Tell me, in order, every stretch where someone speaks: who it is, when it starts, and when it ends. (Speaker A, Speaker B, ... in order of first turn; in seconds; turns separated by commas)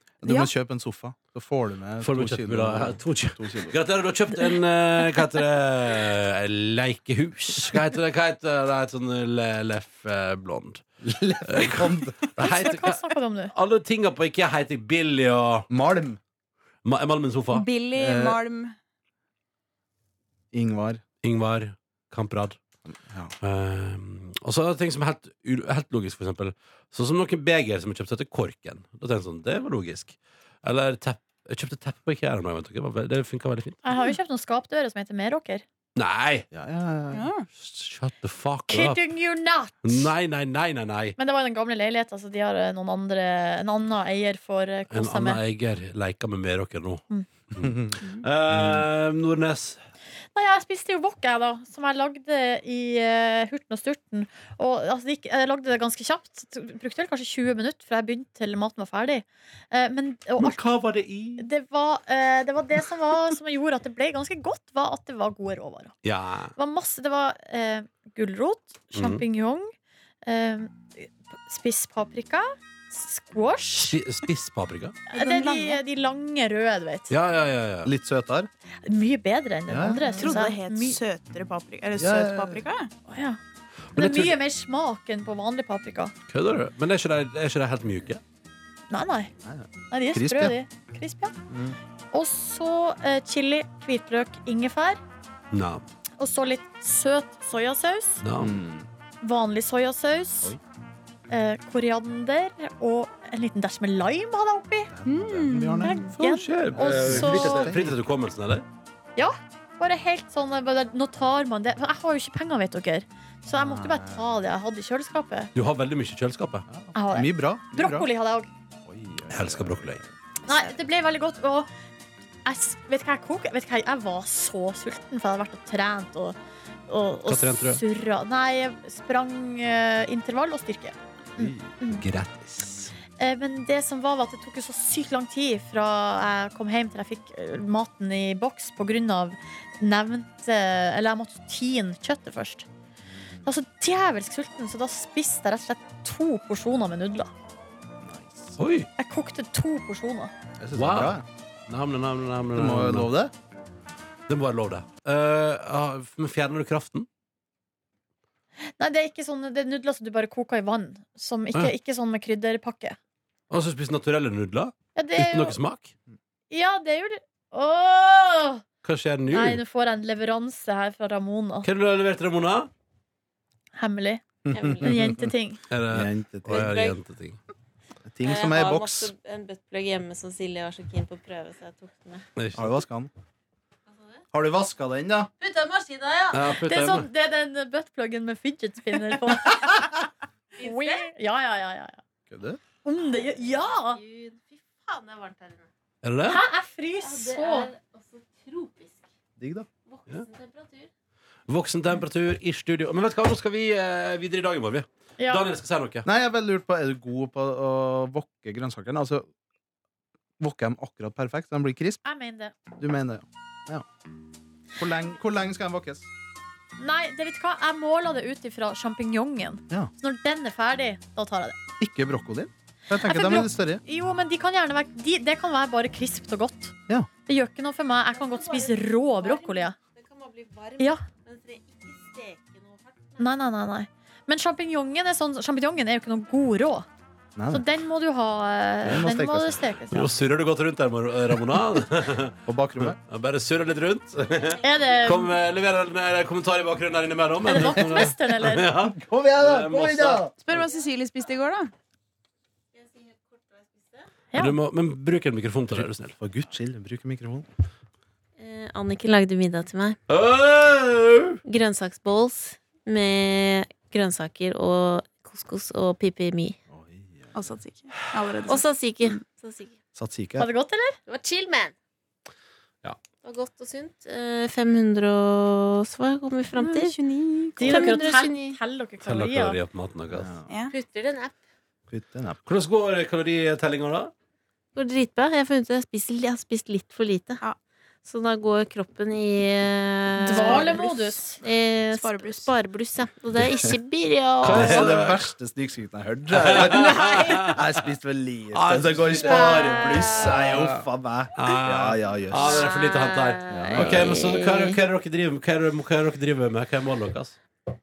Speaker A: 0.2-3.8, Speaker B: 0.2-0.5, Speaker C: 2.0-10.8, Speaker A: 11.0-12.3, Speaker C: 11.4-15.7, Speaker D: 12.4-13.5, Speaker A: 15.7-16.2, Speaker C: 16.8-17.6, Speaker B: 17.5-18.7, Speaker A: 17.9-18.4, Speaker A: 20.5-21.0, Speaker C: 21.2-22.6, Speaker A: 22.9-23.3, Speaker C: 23.4-33.8, Speaker D: 33.8-35.6, Speaker C: 36.0-36.5, Speaker A: 36.5-37.3, Speaker B: 37.1-37.5, Speaker C: 37.5-39.0, Speaker D: 38.7-40.1, Speaker C: 39.8-41.1, Speaker D: 41.2-45.4, Speaker C: 44.9-49.8, Speaker A: 47.6-47.9, Speaker D: 50.3-60.6, Speaker C: 60.4-61.4, Speaker D: 61.4-65.9, Speaker C: 66.0-66.5, Speaker D: 66.5-69.7, Speaker C: 68.9-69.2, Speaker D: 70.2-74.0, Speaker C: 73.8-75.0, Speaker D: 75.1-77.1, Speaker B: 75.1-75.8, Speaker C: 77.1-77.9, Speaker A: 77.8-78.5, Speaker D: 78.8-81.0, Speaker A: 79.7-80.3, Speaker B: 80.2-82.9, Speaker A: 82.0-82.6, Speaker D: 83.1-83.4, Speaker C: 83.9-84.4, Speaker D: 83.9-86.1, Speaker C: 86.3-88.2, Speaker D: 88.9-89.3, Speaker A: 89.4-90.6, Speaker D: 89.9-91.3, Speaker A: 91.5-91.8, Speaker D: 92.1-95.0, Speaker C: 95.5-95.8, Speaker D: 96.2-98.2, Speaker C: 98.2-98.6, Speaker A: 98.4-98.9, Speaker D: 99.2-100.6, Speaker D: 101.3-104.9, Speaker A: 104.9-106.0, Speaker B: 105.0-106.1, Speaker D: 105.8-107.7, Speaker C: 106.2-108.7, Speaker A: 106.7-108.0, Speaker D: 109.2-115.5, Speaker A: 113.5-114.2, Speaker C: 115.5-116.6, Speaker A: 116.7-118.1, Speaker D: 116.9-118.5, Speaker A: 118.8-120.1, Speaker C: 119.3-120.0, Speaker D: 120.5-121.7, Speaker D: 122.4-126.4, Speaker D: 126.9-132.0, Speaker C: 127.2-127.8, Speaker A: 131.4-131.8, Speaker C: 131.8-132.9, Speaker D: 133.2-142.7, Speaker A: 143.1-143.5, Speaker D: 143.4-147.3, Speaker A: 148.0-148.6, Speaker C: 148.6-148.9, Speaker D: 149.0-150.3, Speaker A: 150.6-151.2, Speaker C: 150.7-153.1, Speaker A: 152.5-153.3, Speaker C: 154.3-157.1, Speaker D: 158.8-163.0, Speaker C: 163.5-165.9, Speaker D: 164.9-165.6, Speaker D: 166.5-168.6, Speaker C: 168.8-169.6, Speaker D: 169.3-171.7, Speaker C: 171.6-172.7, Speaker D: 173.7-174.2, Speaker A: 174.4-175.3, Speaker E: 174.5-175.0, Speaker D: 174.8-175.6, Speaker C: 175.7-177.4, Speaker A: 175.9-176.8, Speaker E: 176.5-177.0, Speaker A: 178.1-179.1, Speaker E: 178.2-182.2, Speaker C: 182.3-182.8, Speaker A: 182.5-183.1, Speaker E: 183.9-184.2, Speaker A: 184.3-185.3, Speaker E: 185.4-186.5, Speaker C: 186.3-187.1, Speaker D: 186.6-190.0, Speaker E: 190.6-191.1, Speaker D: 190.6-192.0, Speaker A: 192.3-192.6, Speaker D: 192.8-194.0, Speaker E: 193.2-195.7, Speaker C: 196.0-196.4, Speaker D: 196.2-197.7, Speaker E: 197.0-199.0, Speaker A: 199.4-199.7, Speaker E: 199.8-200.9, Speaker C: 201.5-206.1, Speaker D: 205.2-205.4, Speaker A: 206.0-209.3, Speaker A: 210.4-212.0, Speaker D: 212.0-212.5, Speaker A: 212.8-213.8, Speaker A: 214.8-216.1, Speaker D: 216.8-221.6, Speaker A: 221.8-223.8, Speaker D: 222.9-226.7, Speaker D: 227.2-229.7, Speaker E: 228.1-233.4, Speaker D: 230.8-231.0, Speaker D: 233.2-236.9, Speaker A: 237.3-237.6, Speaker D: 237.5-240.1, Speaker A: 238.8-239.7, Speaker C: 239.9-250.3, Speaker A: 242.4-243.0, Speaker D: 244.6-245.3, Speaker D: 247.4-248.7, Speaker A: 248.7-250.3, Speaker B: 250.4-251.7, Speaker E: 252.7-254.1, Speaker D: 254.3-254.6, Speaker C: 254.3-256.1, Speaker A: 255.7-257.4, Speaker E: 258.4-260.0, Speaker C: 260.1-261.4, Speaker E: 261.4-266.6, Speaker A: 266.7-267.4, Speaker B: 267.3-269.2, Speaker E: 268.5-269.8, Speaker A: 269.9-270.5, Speaker D: 270.4-271.0, Speaker E: 271.1-271.7, Speaker E: 273.2-276.9, Speaker B: 276.6-278.0, Speaker D: 277.6-279.6, Speaker E: 277.6-278.6, Speaker C: 279.0-280.3, Speaker A: 280.1-280.5, Speaker B: 280.5-280.7, Speaker E: 280.7-281.4, Speaker A: 281.9-282.4, Speaker C: 282.4-284.1, Speaker E: 284.7-287.4, Speaker E: 288.0-294.9, Speaker D: 290.2-291.4, Speaker B: 290.3-290.9, Speaker B: 291.9-292.5, Speaker A: 293.4-293.7, Speaker C: 294.4-295.3, Speaker A: 294.4-302.6, Speaker C: 296.4-297.6, Speaker C: 298.5-300.8, Speaker E: 299.1-300.6, Speaker C: 301.4-307.4, Speaker E: 302.3-304.8, Speaker A: 303.5-304.1